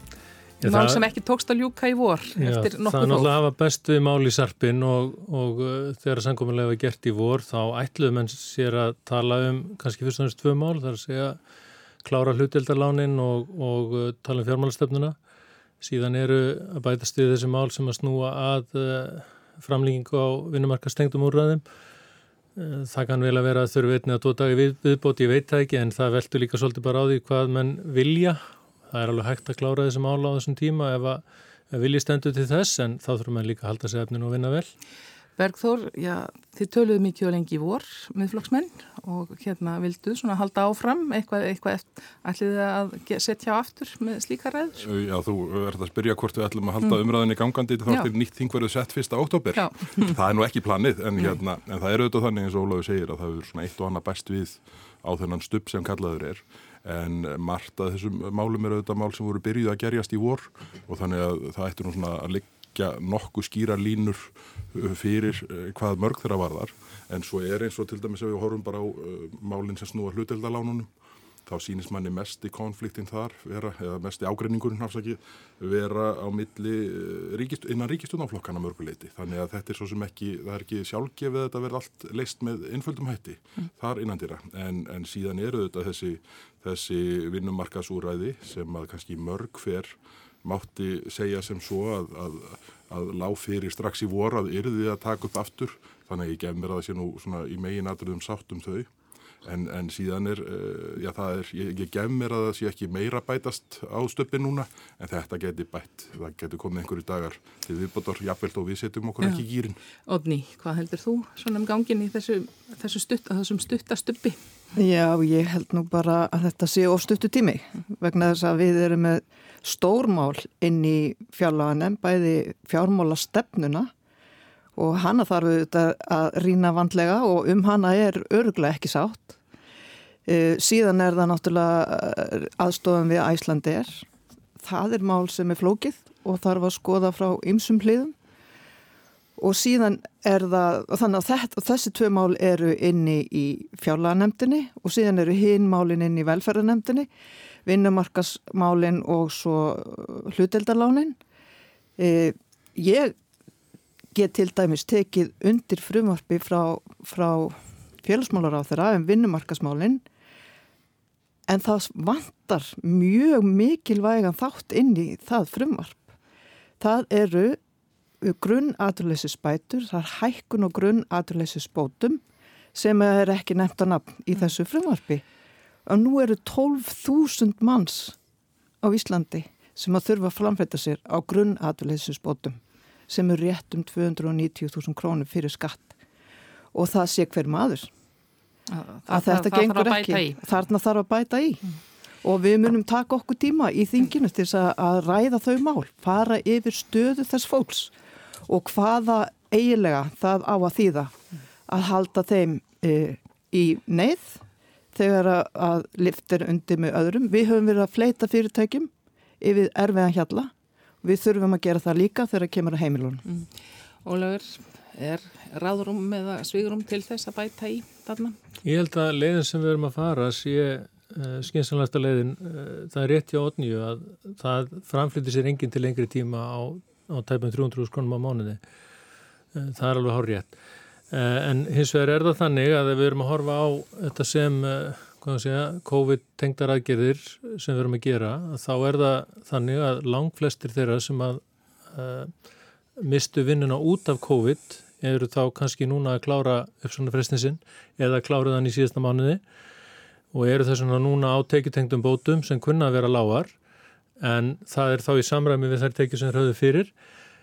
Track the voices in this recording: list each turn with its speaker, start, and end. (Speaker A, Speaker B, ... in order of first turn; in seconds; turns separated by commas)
Speaker A: 0.6-1.0, Speaker B: 0.6-3.3, Speaker A: 2.4-11.4, Speaker A: 12.0-15.2, Speaker A: 15.8-21.6, Speaker A: 22.6-34.7, Speaker B: 35.4-44.8, Speaker C: 44.8-70.9, Speaker B: 49.5-50.2, Speaker C: 71.5-98.9, Speaker C: 99.4-109.8, Speaker B: 110.1-114.4, Speaker D: 114.8-123.9, Speaker D: 124.8-129.4, Speaker D: 130.3-134.1, Speaker D: 134.6-138.2, Speaker D: 139.4-147.1, Speaker D: 147.7-151.2, Speaker D: 152.0-153.2, Speaker D: 154.1-160.0, Speaker D: 161.5-166.1, Speaker D: 166.8-167.6, Speaker D: 168.2-172.2, Speaker D: 172.7-175.2, Speaker D: 175.8-178.2, Speaker D: 178.8-182.6, Speaker D: 183.1-185.9, Speaker D: 186.7-187.9, Speaker B: 188.7-190.4, Speaker D: 189.1-191.6, Speaker D: 192.2-197.9, Speaker D: 198.5-201.2, Speaker D: 201.7-204.4, Speaker D: 204.9-210.5, Speaker D: 211.0-213.2, Speaker B: 214.0-218.4, Speaker A: 218.6-228.6, Speaker A: 229.5-230.5, Speaker A: 231.1-241.4, Speaker A: 241.9-242.3, Speaker A: 243.0-249.4, Speaker A: 250.3-253.5, Speaker A: 254.2-256.9